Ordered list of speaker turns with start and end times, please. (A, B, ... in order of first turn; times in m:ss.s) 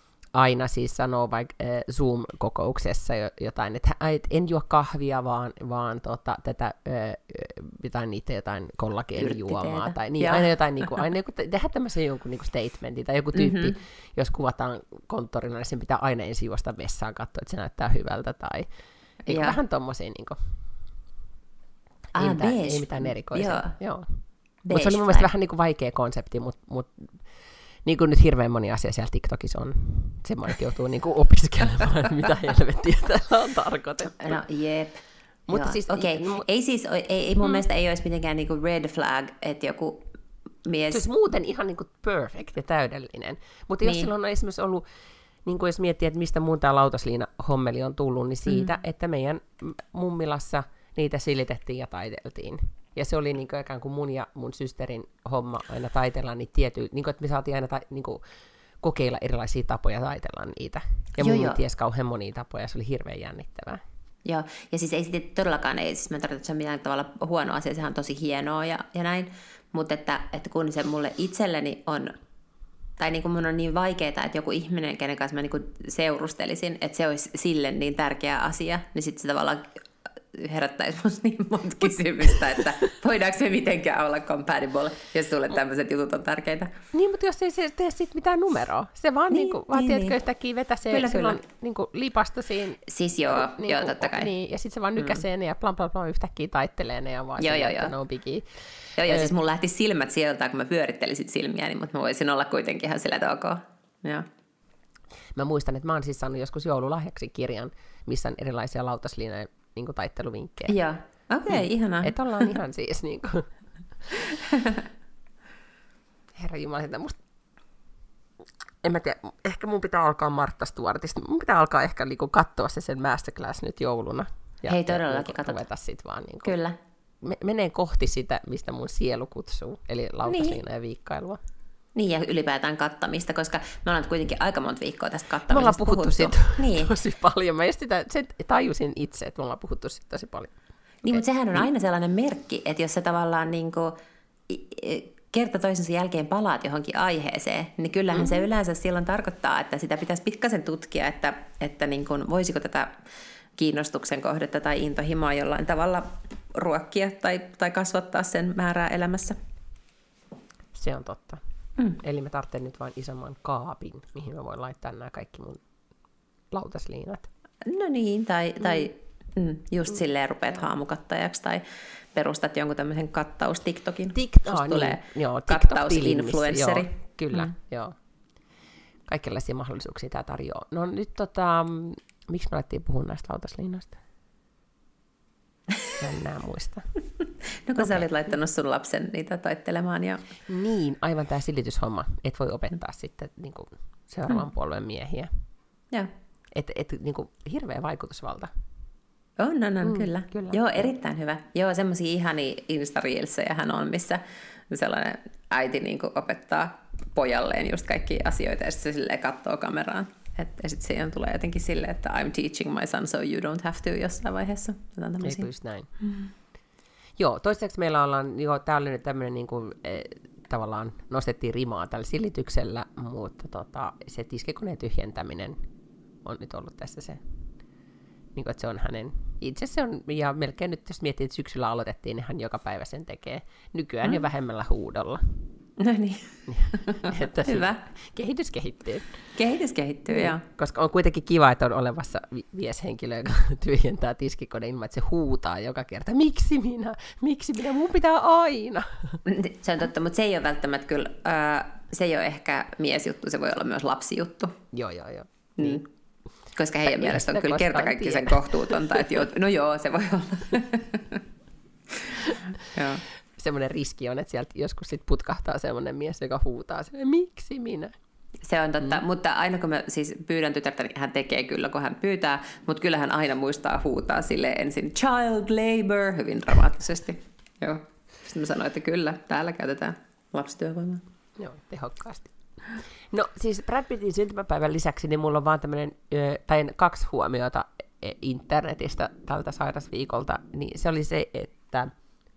0:00.4-0:18.7 A
0:09.2-0:10.9 B
0:13.4-0:13.8 B
0:19.3-0:19.6 B
0:19.3-0:20.4 A
0:22.2-0:23.8 B
0:22.2-0:27.1 A
0:24.7-0:25.3 B
0:27.8-0:34.4 A
0:34.2-0:40.1 B
0:35.5-0:36.5 A
0:40.6-0:41.1 B
0:40.9-0:44.8 A
0:43.8-0:44.1 B
0:45.4-0:58.2 A
0:58.8-1:03.8 A
1:01.2-1:01.6 B
1:04.3-1:12.1 B
1:13.0-1:19.8 B
1:20.3-1:26.7 B
1:26.9-1:38.5 A
1:29.3-1:30.2 B
1:30.9-1:31.4 B
1:32.9-1:34.3 B
1:37.4-1:37.9 B
1:39.0-1:44.3 B
1:39.0-1:39.3 A
1:45.4-1:50.8 A
1:50.7-1:52.5 B
1:51.5-1:53.5 A
1:54.1-1:54.8 B
1:56.4-1:57.2 A
1:58.8-2:06.6 A
2:04.7-2:05.6 B
2:06.4-2:06.8 B
2:07.2-2:11.4 A
2:10.3-2:10.6 B
2:12.0-2:16.9 B
2:15.5-2:20.5 A
2:21.0-2:24.0 B
2:24.5-2:33.0 B
2:28.1-2:28.4 A
2:33.6-2:39.4 B
2:40.7-2:41.4 A
2:42.0-2:45.6 A
2:46.5-2:47.3 A
2:47.6-2:57.5 B
2:54.1-2:58.0 A
2:59.1-3:04.0 A
3:06.0-3:06.8 A
3:07.7-3:10.2 B
3:07.8-3:08.1 A
3:10.5-3:15.3 A
3:16.5-3:18.5 A
3:19.4-3:35.5 B
3:19.8-3:20.9 A
3:35.2-3:35.9 A
3:36.0-3:36.3 B
3:37.2-3:45.6 A
3:46.2-3:47.2 A
3:48.4-3:55.4 A
3:55.8-3:57.8 B
3:56.5-3:59.1 A
3:59.4-4:00.4 B
4:00.1-4:09.2 A
4:09.3-4:14.6 B
4:14.7-4:15.8 A
4:15.6-4:15.8 B
4:16.6-4:21.2 B
4:16.8-4:19.2 A
4:22.0-4:23.0 B
4:22.2-4:22.5 A
4:23.4-4:27.9 A
4:28.4-4:41.0 B
4:41.4-4:42.3 A
4:43.1-4:51.9 A